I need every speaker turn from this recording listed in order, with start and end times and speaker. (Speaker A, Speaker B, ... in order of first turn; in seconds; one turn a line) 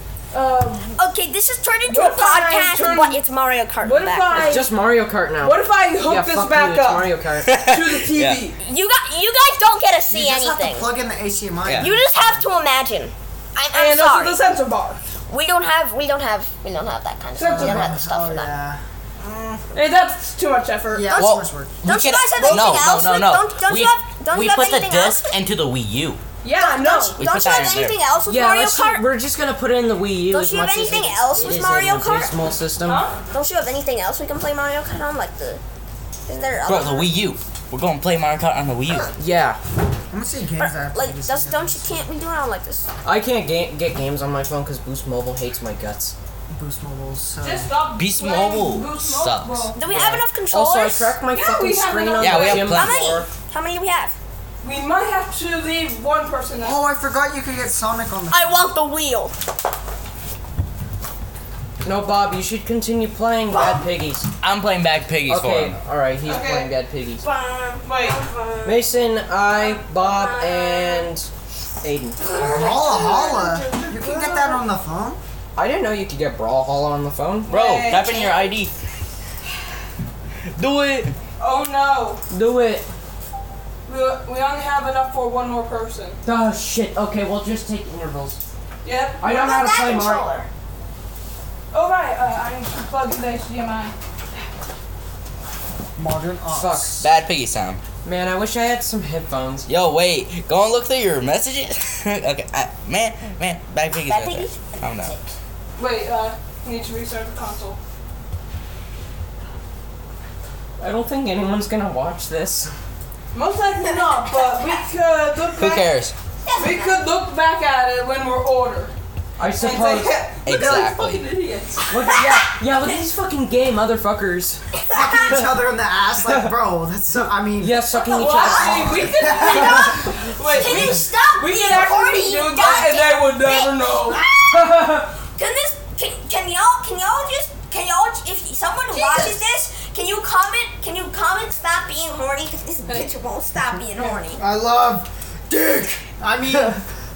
Speaker A: 0.3-1.0
Speaker B: 1.0-4.6
Speaker A: 1.9-3.2
Speaker A: 3.8-4.7
Speaker C: 4.3-7.6
Speaker A: 5.4-7.1
Speaker D: 7.4-8.5
Speaker A: 7.7-8.6
Speaker B: 8.6-10.9
Speaker E: 10.1-12.3
Speaker D: 11.6-11.9
Speaker B: 11.8-14.4
Speaker A: 13.7-15.0
Speaker B: 15.3-18.5
Speaker A: 17.4-17.9
Speaker E: 17.4-19.6
Speaker A: 19.7-21.3
Speaker E: 20.9-21.8
Speaker D: 21.1-26.2
Speaker B: 21.8-25.3
Speaker A: 22.4-22.7
Speaker A: 26.4-27.2
Speaker B: 26.5-29.1
Speaker D: 27.1-28.0
Speaker C: 28.2-33.0
Speaker B: 30.3-32.3
Speaker A: 32.8-33.2
Speaker B: 33.3-35.6
Speaker B: 36.2-37.3
Speaker D: 36.6-39.1
Speaker C: 39.2-39.6
Speaker E: 40.1-42.0
Speaker B: 40.6-42.9
Speaker C: 43.0-46.1
Speaker E: 46.5-47.7
Speaker A: 47.4-49.8
Speaker D: 47.9-49.7
Speaker B: 49.7-51.1
Speaker C: 49.8-53.3
Speaker A: 51.3-52.8
Speaker D: 52.2-53.1
Speaker B: 52.6-54.1
Speaker A: 54.6-56.8
Speaker E: 56.6-58.7
Speaker B: 58.3-59.3
Speaker C: 61.8-64.3
Speaker D: 64.4-65.8
Speaker C: 65.3-67.2
Speaker A: 66.2-66.7
Speaker B: 67.2-68.9
Speaker A: 67.8-68.2
Speaker C: 68.6-71.3
Speaker B: 69.5-71.1
Speaker C: 71.8-72.2
Speaker B: 72.2-74.5
Speaker E: 72.4-75.2
Speaker A: 72.5-74.5
Speaker C: 75.5-77.5
Speaker A: 77.5-78.3
Speaker D: 77.5-78.7
Speaker B: 77.9-78.5
Speaker D: 80.5-81.2
Speaker A: 81.4-82.2
Speaker C: 82.3-82.9
Speaker A: 83.8-86.2
Speaker C: 86.2-88.4
Speaker A: 88.8-89.2
Speaker C: 89.2-90.2
Speaker B: 89.2-90.5
Speaker A: 91.7-93.9
Speaker E: 96.0-96.9
Speaker C: 96.5-97.1
Speaker D: 97.0-97.8
Speaker C: 98.0-99.7
Speaker D: 99.7-105.2
Speaker B: 104.0-105.3
Speaker A: 105.8-107.8
Speaker C: 110.8-112.7
Speaker A: 113.3-115.9
Speaker B: 113.9-114.8
Speaker D: 115.5-116.1
Speaker B: 116.4-117.0
Speaker A: 116.5-121.9
Speaker C: 119.4-120.2
Speaker D: 120.4-121.2
Speaker E: 120.5-120.8
Speaker C: 121.9-124.6
Speaker B: 122.0-122.5
Speaker B: 124.8-125.5
Speaker E: 124.9-127.9
Speaker C: 127.5-129.1
Speaker B: 127.9-144.4
Speaker A: 128.0-135.1
Speaker E: 128.5-131.1
Speaker A: 138.9-139.4
Speaker E: 144.4-146.8